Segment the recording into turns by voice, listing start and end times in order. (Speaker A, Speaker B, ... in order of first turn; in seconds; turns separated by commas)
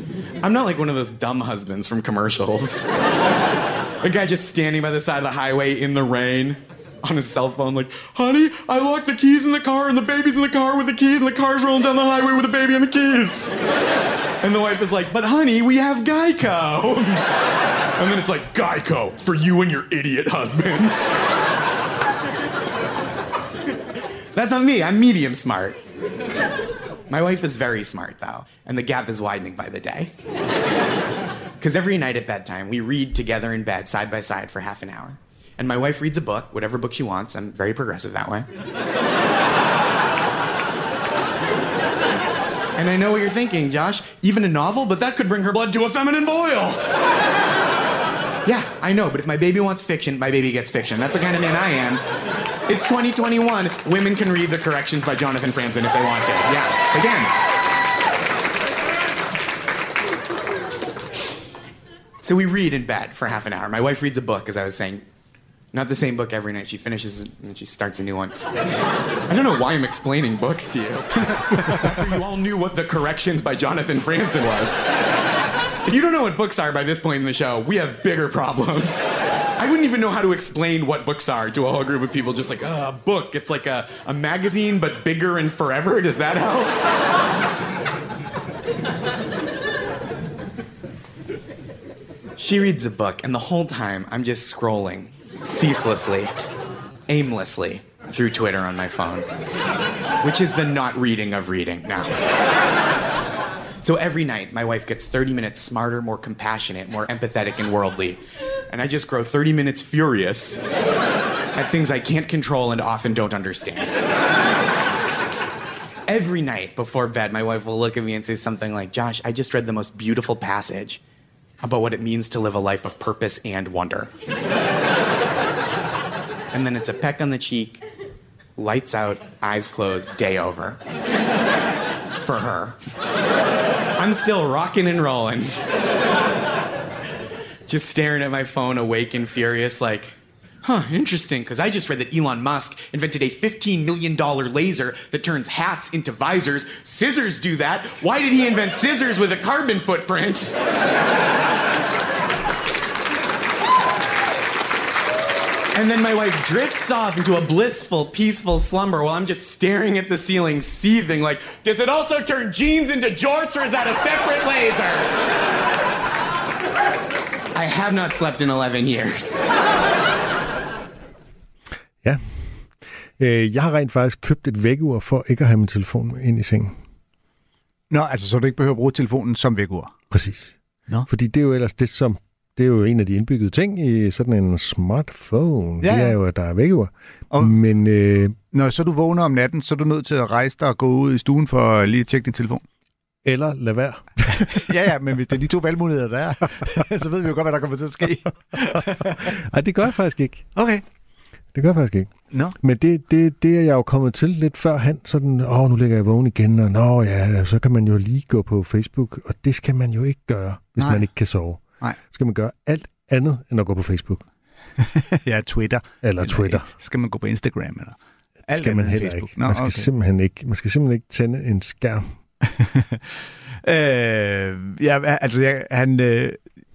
Speaker A: 0.4-2.9, Speaker A: 4.0-13.6, Speaker A: 14.4-17.3, Speaker A: 18.0-21.1, Speaker A: 24.3-25.8, Speaker A: 27.1-30.1, Speaker A: 31.6-38.5, Speaker A: 42.8-46.8, Speaker A: 48.5-52.0, Speaker A: 52.7-57.3, Speaker A: 62.2-65.0, Speaker A: 65.7-68.3, Speaker A: 69.3-74.9, Speaker A: 75.9-86.8, Speaker A: 92.4-96.3, Speaker A: 97.1-99.3, Speaker A: 100.2-102.2, Speaker A: 103.8-110.6, Speaker A: 111.5-114.0, Speaker A: 116.1-121.0, Speaker A: 121.6-124.1, Speaker A: 126.5-127.8, Speaker A: 128.6-130.8, Speaker A: 132.2-132.8, Speaker A: 134.0-135.6, Speaker A: 137.7-150.6, Speaker A: 155.7-165.1, Speaker A: 167.5-169.5, Speaker B: 172.0-176.8, Speaker C: 177.9-179.9, Speaker B: 180.1-180.6, Speaker B: 181.1-188.4, Speaker C: 185.8-186.2, Speaker C: 187.3-187.6, Speaker C: 188.5-192.6, Speaker B: 193.2-194.7, Speaker C: 194.5-199.3, Speaker B: 199.2-200.5, Speaker C: 200.6-200.8, Speaker B: 201.5-214.2, Speaker C: 210.8-211.1, Speaker C: 214.8-219.9, Speaker B: 216.0-216.7, Speaker B: 218.5-222.1, Speaker C: 222.5-223.0, Speaker C: 223.6-226.4